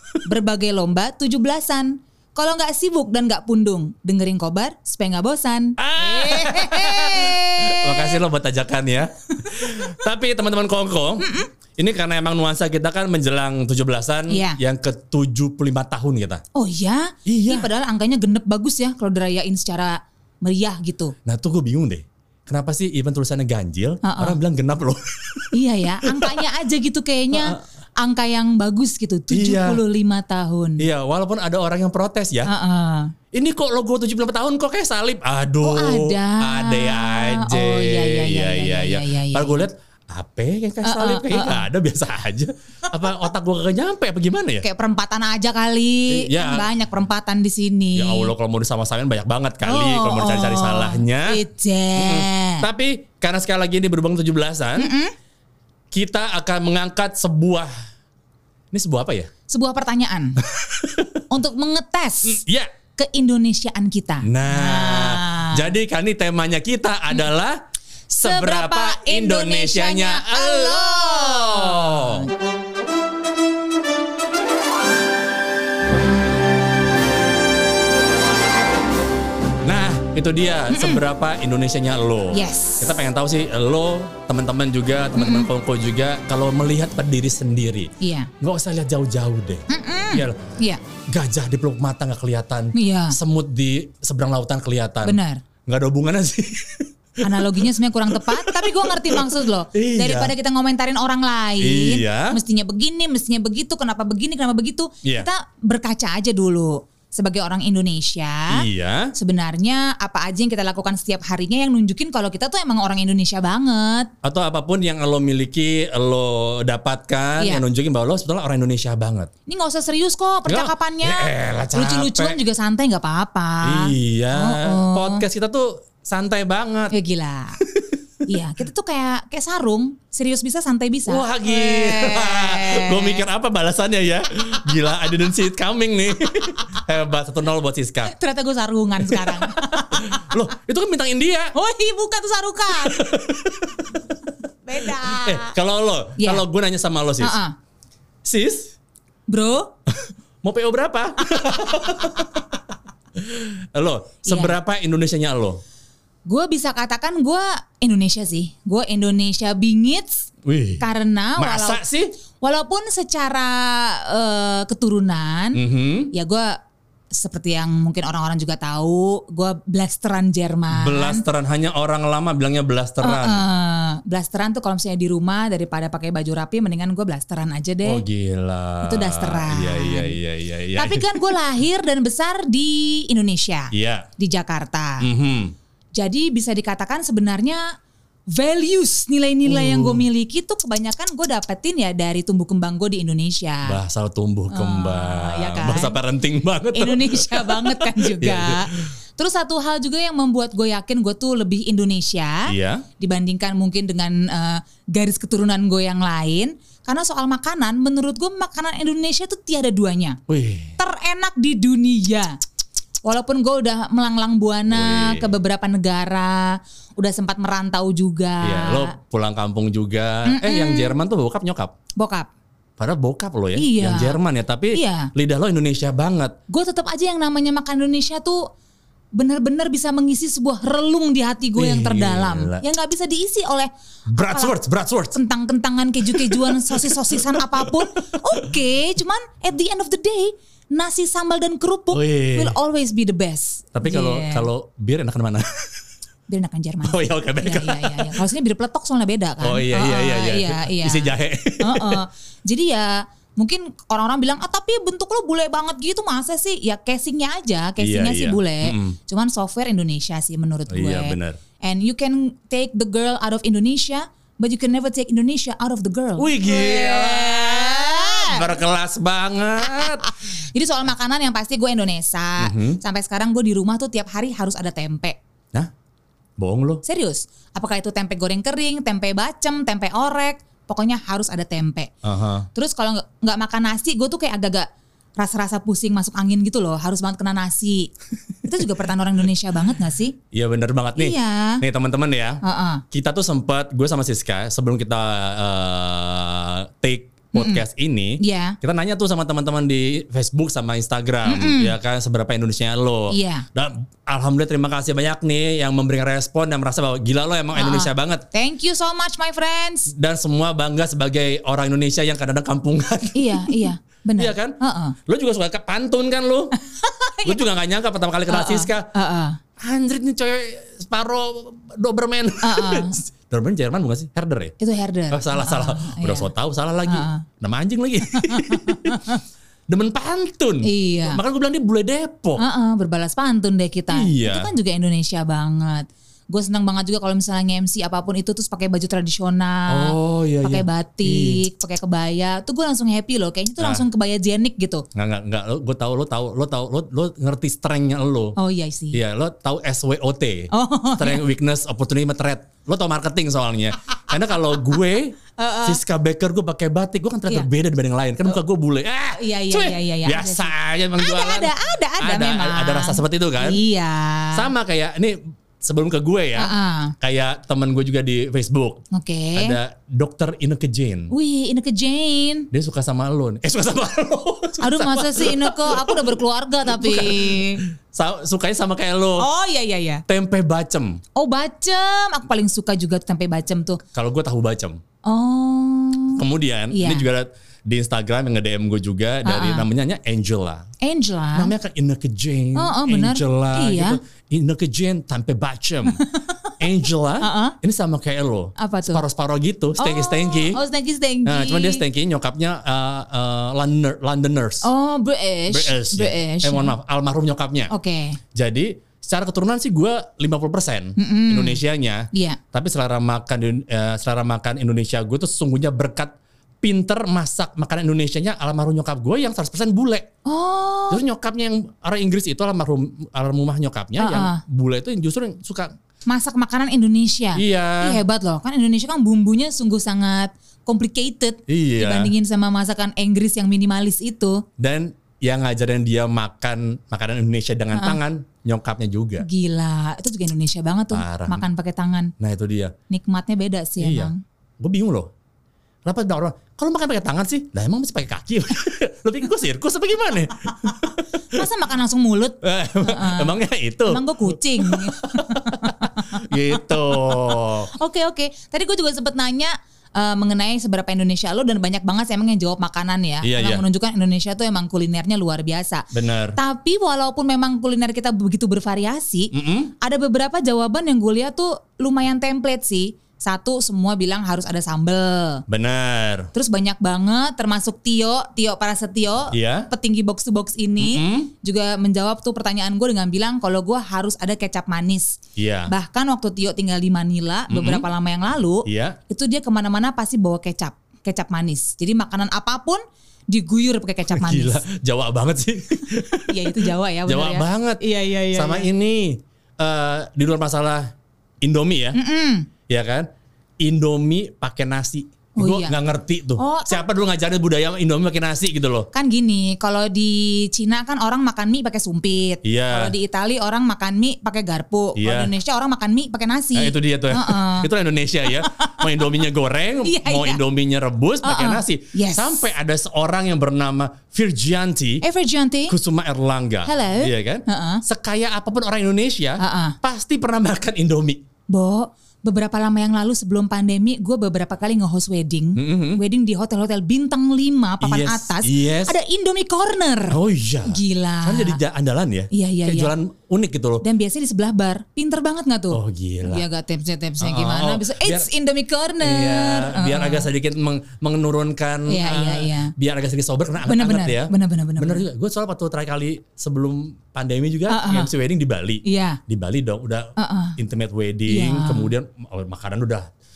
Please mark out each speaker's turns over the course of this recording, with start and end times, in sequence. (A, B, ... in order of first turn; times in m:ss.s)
0:00.2-0:08.2 A
0:05.8-0:16.4 B
0:11.2-0:11.5 A
0:14.3-0:14.6 A
0:16.5-0:21.1 A
0:17.2-0:17.7 B
0:21.2-0:25.5 B
0:24.0-0:24.4 A
0:25.5-0:30.8 A
0:26.0-0:26.4 B
0:27.3-0:27.6 B
0:29.3-0:29.8 B
0:30.8-0:32.5 B
0:32.4-0:33.1 A
0:33.3-0:44.6 B
0:35.6-0:39.7 A
0:40.8-0:41.6 A
0:44.6-0:48.3 A
0:46.1-0:46.7 B
0:48.0-0:51.4 B
0:49.6-0:52.6 A
0:51.9-0:54.9 B
0:54.8-0:55.1 A
0:55.9-0:57.7 B
0:58.7-0:59.3 B
0:59.5-1:00.4 A
1:00.4-1:01.2 B
1:01.3-1:02.4 A
1:02.2-1:02.7 B
1:03.0-1:05.7 A
1:04.2-1:07.6 B
1:08.1-1:12.2 B
1:08.1-1:12.3 A
1:19.6-1:30.5 B
1:20.7-1:21.0 A
1:22.3-1:22.9 A
1:25.2-1:25.5 A
1:28.0-1:28.3 A
1:29.7-1:30.8 A
1:31.1-1:40.3 B
1:32.7-1:33.2 A
1:35.0-1:35.4 A
1:37.2-1:54.1 A
1:41.6-1:42.4 B
1:48.5-1:49.1 B
1:54.2-1:59.3 B
1:59.5-2:05.2 A
2:00.4-2:02.4 B
2:03.6-2:06.9 B
2:06.9-2:07.6 A
2:07.6-2:08.0 B
2:08.2-2:13.2 A
2:11.1-2:18.1 B
2:18.0-2:20.3 A
2:19.0-2:21.5 B
2:21.5-2:23.1 A
2:22.8-2:24.0 B
2:24.6-2:25.5 A
2:24.9-2:27.4 B
2:26.2-2:26.4 A
2:27.2-2:27.5 A
2:28.2-2:28.7 B
2:29.3-2:29.7 A
2:29.9-2:32.6 B
2:33.1-2:35.6 B
2:34.2-2:34.6 A
2:36.3-2:40.3 A
2:40.4-2:40.8 B
2:40.8-2:41.8 A
2:41.4-2:42.1 B
2:42.4-2:45.6 A
2:45.5-2:46.1 B
2:46.1-2:46.6 A
2:47.1-2:51.2 A
2:50.7-2:53.4 B
2:53.0-2:58.0 A
2:57.8-3:01.2 B
2:58.8-3:00.2 A
3:00.7-3:05.0 A
3:03.7-3:04.1 B
3:05.0-3:05.5 B
3:05.9-3:07.6 A
3:08.3-3:13.8 A
3:09.4-3:10.0 B
3:13.6-3:18.9 B
3:14.5-3:16.0 A
3:16.7-3:30.2 A
3:22.5-3:22.8 B
3:30.3-3:30.8 B
3:30.8-3:32.4 A
3:33.0-3:38.9 A
3:34.7-3:35.4 B
3:38.4-3:41.7 B
3:40.2-3:40.9 A
3:42.0-3:42.3 A
3:42.8-3:46.4 B
3:43.6-3:44.2 A
3:44.7-3:45.1 A
3:46.5-3:48.5 A
3:49.2-3:54.5 A
3:51.6-3:52.6 B
3:54.1-3:55.2 B
3:55.1-4:04.5 A
3:56.0-3:57.9 B
4:01.9-4:02.6 B
4:03.7-4:05.8 B
4:06.3-4:28.5 A
4:06.8-4:08.2 B
4:09.4-4:12.0 B
4:17.8-4:19.0 B
4:20.7-4:21.4 B
4:26.2-4:30.1 B
4:29.6-4:35.2 A
4:32.4-4:32.8 B
4:36.4-4:36.8 B
4:36.8-4:41.9 A
4:42.0-4:42.5 B
4:42.5-4:47.9 A
4:48.4-4:50.2 A
4:50.3-5:08.2 B
4:51.0-4:51.6 A
4:52.4-4:52.8 A
4:57.3-4:57.6 A
4:58.2-4:58.6 A
5:01.2-5:01.7 A
5:03.1-5:03.4 A
5:07.5-5:09.9 A
5:09.9-5:16.5 B
5:13.1-5:15.0 A
5:16.6-5:17.4 A
5:17.2-5:18.9 B
5:18.3-5:19.4 A
5:19.6-5:24.5 B
5:22.4-5:23.0 A
5:24.6-5:26.3 A
5:25.1-5:29.0 B
5:26.8-5:27.2 A
5:28.1-5:29.2 A
5:29.7-5:32.4 B
5:30.6-5:31.2 A
5:32.4-5:44.8 A
5:33.9-5:34.5 B
5:39.7-5:41.4 B
5:43.6-5:43.8 B
5:44.9-5:48.4 B
5:48.4-5:49.0 A
5:48.9-6:03.6 B
5:50.5-5:51.2 A
5:55.4-5:55.8 A
5:59.1-6:04.5 A
6:04.3-6:08.8 B
6:06.4-6:06.9 A
6:08.9-6:09.6 A
6:09.4-6:11.1 B
6:11.1-6:12.5 A
6:12.5-6:19.2 B
6:14.6-6:17.6 A
6:19.2-6:20.0 A
6:20.1-6:21.0 B
6:21.2-6:23.8 A
6:23.9-6:24.8 B
6:25.0-6:27.0 A
6:26.2-6:30.7 B
6:29.2-6:29.6 A
6:30.8-6:31.5 A
6:31.3-6:36.0 B
6:32.5-6:34.0 A
6:35.9-6:36.5 A
6:36.6-6:40.6 B
6:37.2-6:37.6 A
6:38.6-6:39.0 A
6:39.8-6:41.8 A
6:41.2-6:44.7 B
6:44.6-6:46.7 A
6:45.5-6:47.7 B
6:47.7-6:48.2 A
6:48.3-7:00.1 B
6:51.0-6:51.6 A
6:52.1-6:52.4 A
7:00.2-7:01.0 A
7:00.9-7:05.7 B
7:04.0-7:04.4 A
7:06.1-7:14.4 A
7:07.4-7:08.0 B
7:11.5-7:12.1 B
7:14.6-7:19.2 B
7:17.7-7:18.0 A
7:19.2-7:22.1 A
7:20.9-7:21.4 B
7:22.2-7:22.7 B
7:22.9-7:24.2 A
7:23.8-7:25.1 B
7:25.8-7:31.4 B
7:31.3-7:33.4 A
7:32.4-7:37.7 B
7:33.9-7:55.4 A
7:43.2-7:43.6 B
7:45.9-7:46.4 B
7:49.3-7:49.7 B
7:55.5-7:56.3 B
7:56.3-8:14.6 A
7:59.3-7:59.7 B
8:00.8-8:01.3 B
8:05.4-8:05.7 B
8:07.5-8:07.8 B
8:08.6-8:09.0 B
8:14.1-8:22.0 B
8:16.3-8:18.7 A
8:21.9-8:22.5 A
8:22.7-8:23.1 B
8:23.6-8:28.9 B
8:25.4-8:25.8 A
8:26.4-8:26.8 A
8:28.9-8:37.7 A
8:32.4-8:32.9 B
8:35.0-8:35.3 B
8:36.5-8:45.0 B
8:38.2-8:39.1 A
8:39.8-8:40.4 A
8:41.2-8:42.4 A
8:45.0-8:45.7 A
8:45.7-8:51.2 B
8:46.6-8:47.8 A
8:49.4-8:49.8 A
8:51.5-9:01.6 A
8:55.6-8:56.0 B
8:57.8-8:58.9 B
9:00.1-9:03.8 B
9:02.3-9:02.9 A
9:03.8-9:10.3 A
9:05.7-9:06.4 B
9:07.2-9:08.3 B
9:09.0-9:23.1 B
9:11.9-9:12.7 A
9:13.6-9:15.0 A
9:17.7-9:18.1 A
9:18.8-9:19.2 A
9:20.2-9:20.6 A
9:21.3-9:21.9 A